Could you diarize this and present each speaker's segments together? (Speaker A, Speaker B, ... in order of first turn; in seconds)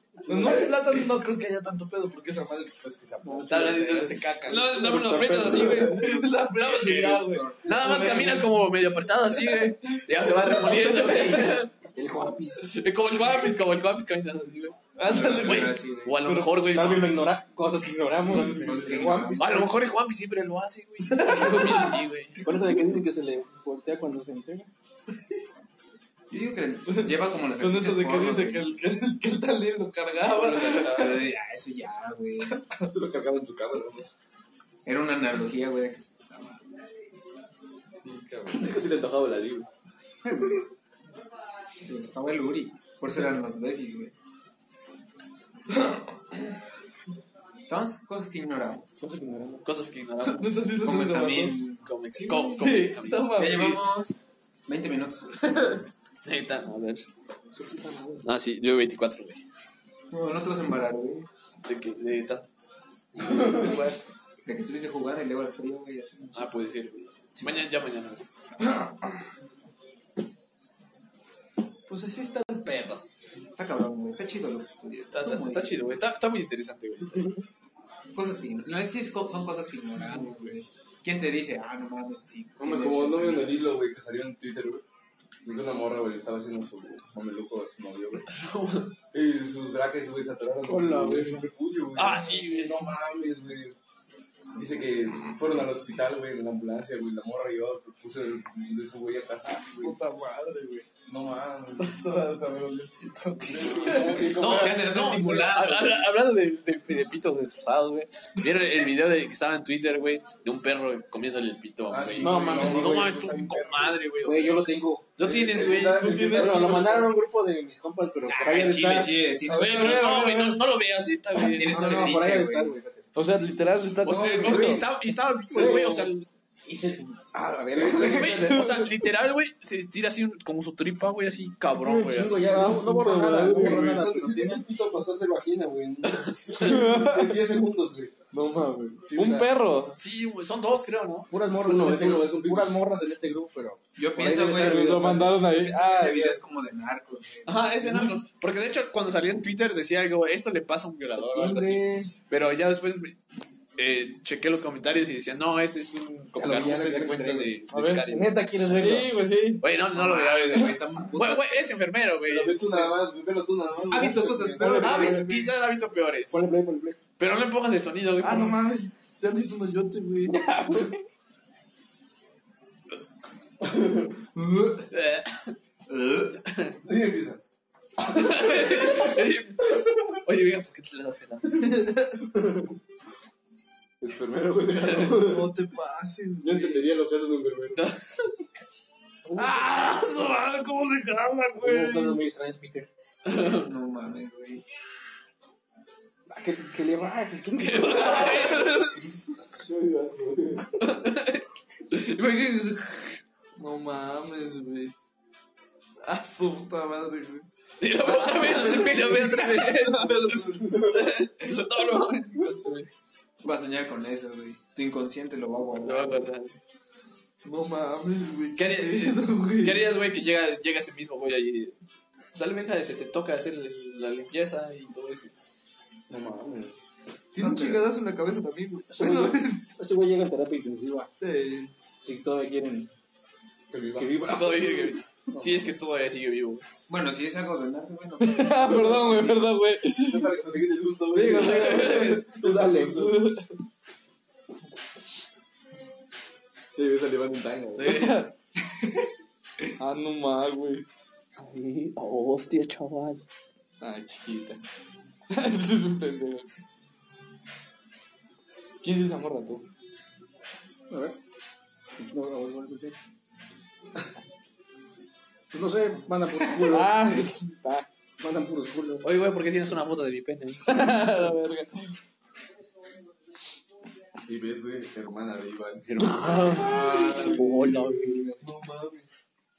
Speaker A: 0.2-8.6, 9.4-11.4, 14.9-16.8, 18.3-19.1, 21.1-22.0, 26.9-31.2, 38.0-38.7, 45.7-46.0, 50.2-51.6, 52.3-53.7, 63.3-63.8, 71.9-73.0, 79.9-80.6, 99.8-100.9, 101.8-104.3, 115.7-116.9, 119.4-120.6, 123.1-124.8, 132.4-134.0, 136.5-137.4, 138.3-140.0, 144.5-146.4, 158.7-159.7, 168.2-170.8, 181.6-182.2, 185.0-186.9, 189.3-192.2, 198.2-199.1, 201.9-204.9, 206.0-207.5, 208.0-212.1, 217.4-219.9, 227.3-229.7, 231.2-231.7, 238.2-240.3, 241.1-243.6, 247.8-248.3, 249.8-250.8, 253.8-254.6, 255.3-256.5, 258.8-259.6, 266.6-267.8, 270.6-271.9, 276.7-278.7
Speaker B: 0.3-0.6, 32.8-34.1, 38.5-39.6, 82.6-84.8, 85.4-88.3, 89.1-93.8, 94.5-100.0, 101.1-102.0, 103.5-105.0, 111.9-114.1, 115.2-117.2, 124.1-124.8, 133.4-138.1, 139.1-139.5, 141.5-142.8, 162.3-165.3, 173.6-174.8, 175.9-177.4, 178.1-179.1, 184.0-185.5, 186.4-187.9, 199.6-200.8, 226.1-226.7, 233.7-234.4, 239.9-242.9, 246.7-248.1, 274.2-279.1
Speaker C: 3.3-3.7, 4.6-6.0, 10.7-12.8, 16.7-19.6, 22.4-24.7, 49.0-49.7, 57.5-58.3, 90.6-91.5, 112.2-113.2, 114.2-115.2, 116.2-119.2, 121.6-123.0, 125.5-126.1, 126.6-128.8, 131.7-134.6, 141.3-145.4, 151.1-152.1, 156.3-159.2, 166.3-167.0, 170.3-170.9, 189.3-189.6, 191.6-192.9, 196.3-198.6, 228.9-231.1, 232.0-232.9, 233.9-235.7, 242.3-243.2, 260.9-261.1, 262.0-263.0, 265.5-267.3, 268.2-269.1, 277.1-278.0
Speaker D: 3.3-11.7, 12.6-17.3, 18.3-18.7, 19.3-22.5, 30.2-31.3, 49.6-50.7, 51.8-53.8, 56.2-57.1, 58.2-59.4, 61.6-62.5, 63.2-64.0, 66.3-68.2, 75.1-77.4, 88.3-88.9, 91.9-92.8, 104.1-116.2, 119.5-122.3, 124.0-126.3, 128.0-132.6, 136.0-136.8, 139.9-141.3, 147.4-153.2, 153.8-158.4, 159.6-163.1, 164.8-166.4, 167.2-168.6, 174.9-175.6, 176.2-176.8, 178.0-181.7, 184.7-185.2, 187.7-188.3, 193.2-193.7, 197.6-198.9, 200.8-201.4, 207.8-212.9, 215.8-216.6, 218.6-221.8, 222.3-225.3, 234.2-236.6, 241.3-242.2, 247.8-248.1, 251.4-253.2, 269.0-271.3, 275.9-278.3
Speaker E: 6.7-7.7, 15.1-16.2, 18.3-19.8, 26.3-28.7, 30.7-32.6, 34.8-36.7, 40.2-40.6, 41.8-44.1, 47.7-49.0, 50.8-52.5, 53.3-55.8, 60.1-61.3, 64.4-66.5, 67.3-67.7, 73.5-75.9, 78.1-83.6, 104.3-106.1, 118.2-120.2, 121.5-122.8, 143.9-148.2, 159.9-161.7, 163.9-165.3, 193.3-194.6, 213.4-216.3, 227.4-227.8, 236.9-239.3